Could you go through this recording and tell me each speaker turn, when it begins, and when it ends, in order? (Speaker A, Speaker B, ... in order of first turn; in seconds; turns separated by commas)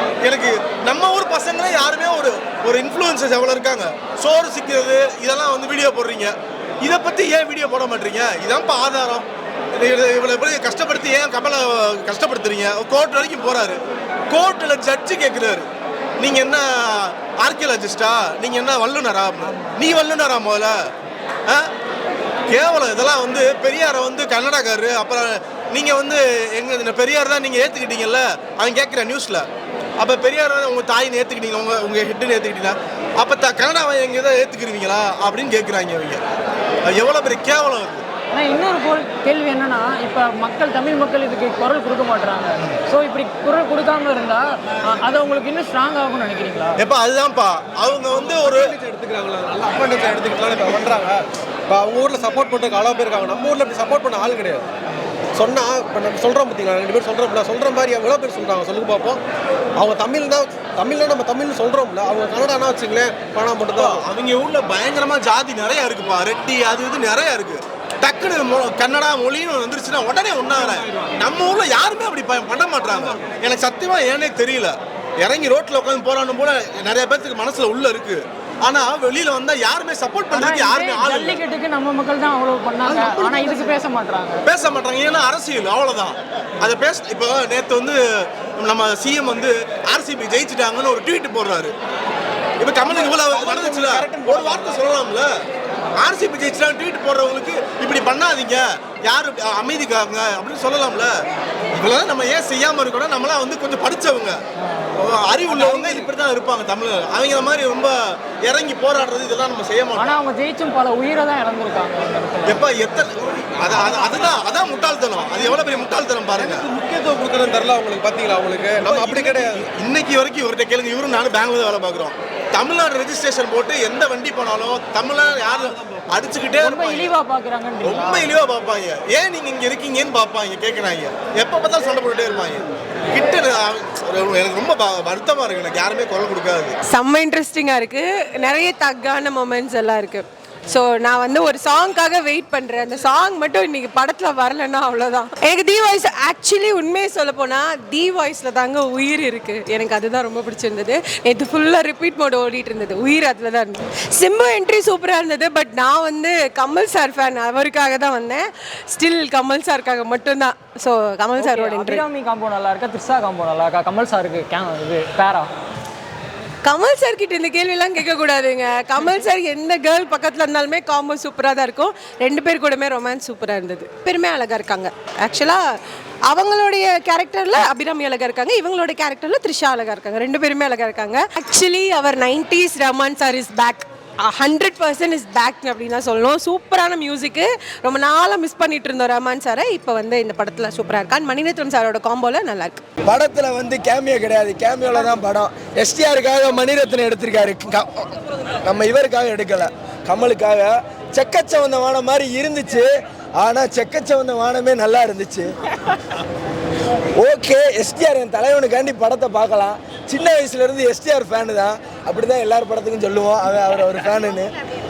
Speaker A: 0.2-13.8, Speaker A: 14.3-15.7, Speaker A: 16.2-20.7, Speaker A: 22.5-29.5, Speaker A: 30.0-36.2, Speaker A: 36.9-38.0, Speaker B: 38.3-46.8, Speaker A: 46.8-48.7, Speaker C: 48.1-54.6, Speaker C: 55.3-59.2, Speaker C: 59.8-64.0, Speaker A: 63.7-81.4, Speaker B: 80.3-84.4, Speaker A: 84.4-91.7, Speaker A: 92.6-95.3, Speaker C: 93.5-93.9, Speaker A: 96.0-101.1, Speaker A: 101.7-104.4, Speaker A: 104.9-110.2, Speaker B: 110.0-112.6, Speaker A: 112.4-116.6, Speaker C: 116.3-119.6, Speaker A: 118.8-127.1, Speaker B: 126.6-128.3, Speaker A: 127.8-136.7, Speaker D: 136.9-162.0, Speaker B: 161.4-165.5, Speaker D: 166.6-175.6, Speaker D: 176.3-192.8, Speaker E: 193.0-198.1, Speaker E: 198.6-202.9, Speaker E: 203.4-205.5, Speaker E: 207.2-214.5